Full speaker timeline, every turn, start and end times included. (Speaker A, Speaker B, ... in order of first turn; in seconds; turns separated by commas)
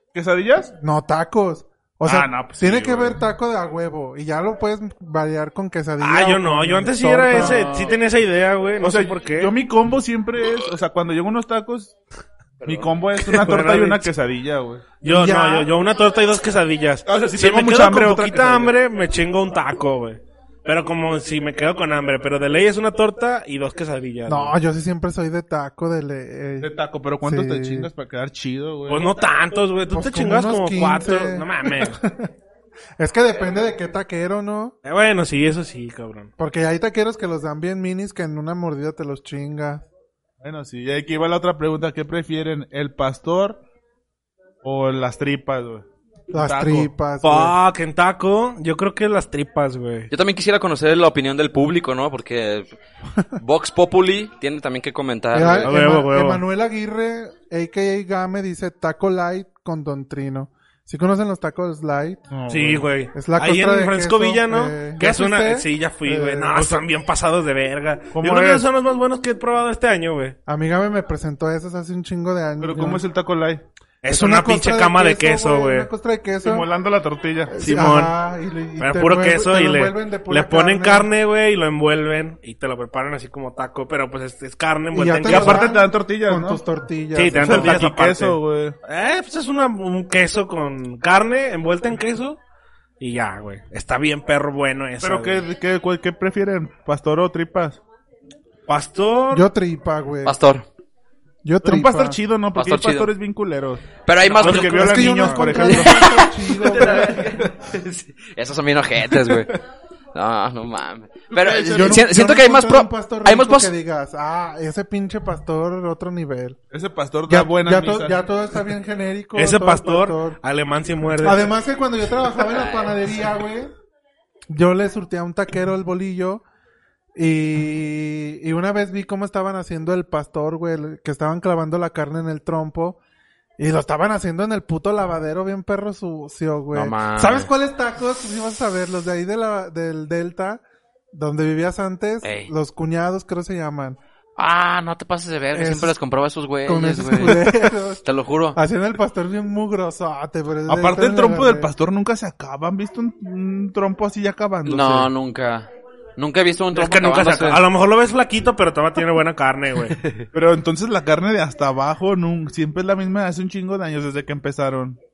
Speaker A: 0.1-0.7, Speaker B: 0.8-7.9, Speaker A: 2.0-3.2, Speaker C: 6.0-9.5, Speaker A: 7.3-7.9, Speaker A: 8.8-11.9, Speaker D: 12.6-12.9, Speaker A: 12.6-14.9, Speaker C: 13.2-14.1, Speaker C: 15.0-24.5, Speaker B: 15.0-15.7, Speaker A: 17.1-18.7, Speaker B: 24.3-26.7, Speaker A: 26.6-29.1, Speaker B: 27.2-27.9, Speaker C: 28.9-32.0, Speaker B: 29.9-32.3, Speaker B: 33.0-34.7, Speaker C: 34.8-36.3, Speaker B: 36.4-39.9, Speaker A: 40.4-43.6, Speaker A: 44.6-46.9, Speaker B: 46.3-47.5, Speaker C: 47.2-50.1, Speaker D: 50.1-52.7, Speaker D: 53.4-55.7, Speaker B: 55.3-62.2, Speaker C: 55.6-56.4, Speaker A: 62.3-62.9, Speaker C: 62.5-70.3, Speaker B: 63.1-66.6, Speaker A: 66.5-66.8, Speaker A: 68.1-68.6, Speaker B: 70.5-73.0, Speaker A: 72.6-73.6, Speaker C: 74.0-75.9, Speaker B: 74.1-76.7, Speaker A: 76.4-77.5, Speaker B: 77.5-81.1, Speaker C: 77.6-78.1, Speaker C: 78.8-85.7, Speaker B: 84.9-87.8, Speaker A: 85.3-86.6, Speaker C: 87.1-92.4, Speaker A: 87.3-88.8, Speaker C: 93.0-95.5, Speaker A: 95.0-97.8, Speaker C: 98.7-99.5, Speaker B: 99.3-100.4, Speaker D: 100.2-100.7, Speaker B: 101.4-102.2, Speaker A: 101.6-107.4, Speaker D: 102.5-103.1, Speaker D: 104.0-104.8, Speaker C: 104.3-105.8, Speaker B: 104.7-107.2, Speaker D: 105.6-109.5, Speaker D: 110.1-113.7, Speaker A: 111.3-112.1, Speaker B: 111.7-116.6, Speaker A: 116.7-118.2, Speaker B: 117.3-120.4, Speaker C: 119.3-121.5, Speaker B: 121.2-123.7, Speaker B: 124.5-126.4, Speaker B: 127.2-133.0, Speaker B: 133.6-140.6, Speaker D: 136.7-137.5, Speaker B: 141.1-144.0, Speaker D: 142.2-142.5, Speaker D: 144.4-148.6, Speaker B: 145.5-145.9, Speaker B: 146.6-148.0, Speaker B: 148.5-151.7, Speaker A: 150.7-155.1, Speaker D: 154.6-157.6, Speaker C: 156.7-160.0, Speaker A: 160.3-165.0